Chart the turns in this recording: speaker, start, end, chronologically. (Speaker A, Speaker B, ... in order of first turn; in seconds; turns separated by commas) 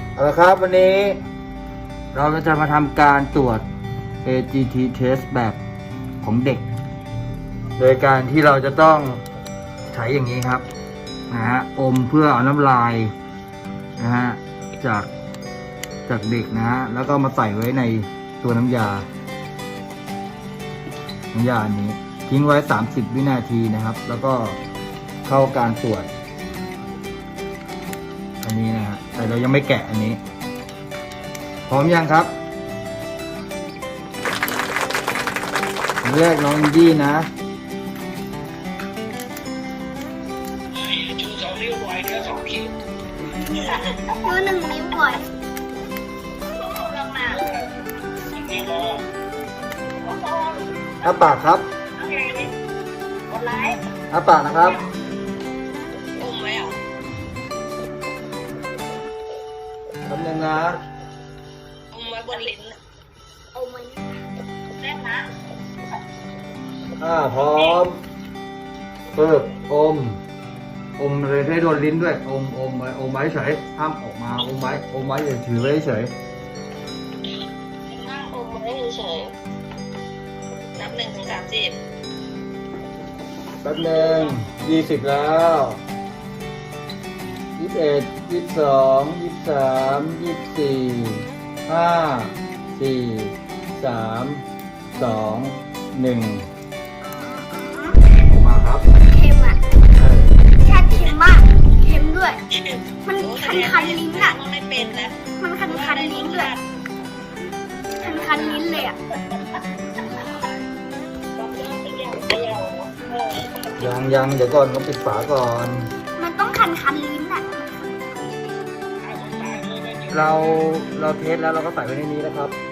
Speaker A: 0.2-1.2, Speaker A: 2.1-3.6, Speaker A: 4.2-5.6, Speaker A: 6.2-6.7, Speaker A: 7.8-9.2, Speaker A: 9.9-10.7, Speaker A: 11.3-13.1, Speaker A: 14.0-15.1, Speaker A: 16.1-19.1, Speaker A: 21.3-24.6, Speaker A: 25.3-26.1, Speaker A: 28.4-30.2, Speaker A: 31.7-32.3, Speaker A: 36.0-37.3, Speaker B: 41.0-42.6, Speaker C: 43.5-45.2, Speaker B: 46.5-47.5, Speaker B: 48.4-49.0, Speaker B: 50.0-50.7, Speaker A: 51.0-51.7, Speaker B: 52.0-52.5, Speaker B: 53.3-53.8, Speaker A: 54.1-54.8, Speaker B: 56.2-56.8, Speaker A: 60.1-60.8, Speaker B: 61.9-62.8, Speaker C: 63.5-64.2, Speaker B: 64.8-65.3, Speaker A: 67.0-68.0, Speaker A: 69.1-70.2, Speaker A: 71.0-76.1, Speaker B: 77.9-79.3, Speaker B: 80.8-81.8, Speaker A: 83.6-85.8, Speaker B: 84.0-84.3, Speaker A: 87.6-94.5, Speaker A: 95.0-96.5, Speaker C: 97.0-98.0, Speaker A: 98.2-98.9, Speaker C: 99.1-99.6, Speaker A: 100.0-100.3, Speaker C: 100.6-102.4, Speaker B: 102.6-106.6, Speaker C: 103.0-104.4, Speaker C: 105.4-106.5, Speaker C: 108.0-109.0, Speaker B: 111.4-114.0, Speaker A: 113.8-115.9, Speaker C: 116.2-118.7, Speaker B: 119.1-120.1, Speaker A: 120.1-122.6